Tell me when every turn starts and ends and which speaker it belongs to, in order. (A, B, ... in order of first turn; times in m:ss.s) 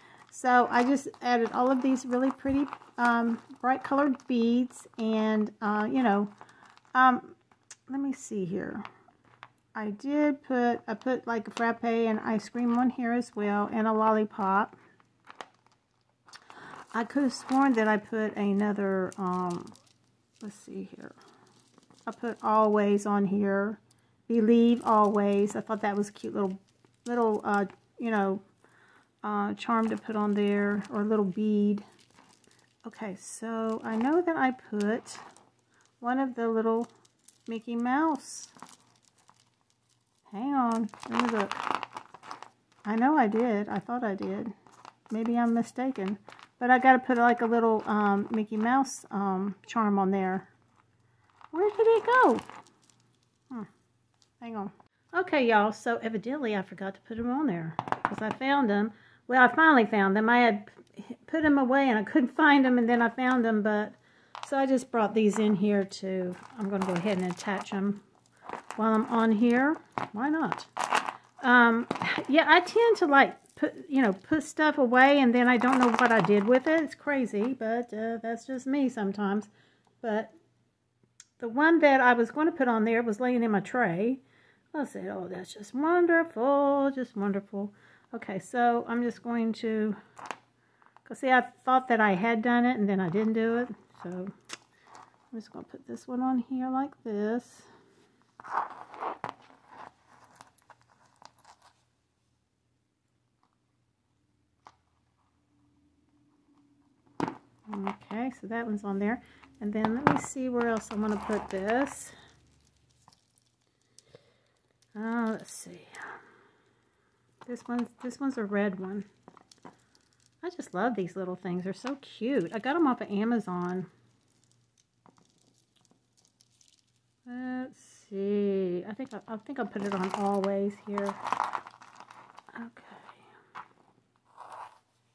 0:00.3-0:06.3 A
0:06.9-0:07.4 A
0:07.9-0:08.9 A
0:09.8-0:14.8 A
0:16.9-0:19.8 A
0:20.4-0:21.2 A
0:22.1-0:28.4 A
0:29.2-0:31.8 A
0:32.8-0:35.2 A
0:36.0-0:36.9 A
0:37.5-0:38.5 A
0:40.3-0:41.6 A
0:42.8-0:44.5 A
0:45.1-0:50.5 A
0:51.5-0:52.5 A
0:54.4-1:08.0 A
1:08.8-1:10.7 A
1:11.4-1:19.5 A
1:20.0-1:20.3 A
1:21.4-1:24.2 A
1:24.7-1:30.0 A
1:31.0-1:34.3 A
1:35.3-1:37.7 A
1:47.7-1:52.2 A
1:55.0-1:56.2 A
1:57.5-1:59.1 A
2:00.4-2:03.9 A
2:07.3-2:11.2 A
2:12.5-2:13.2 A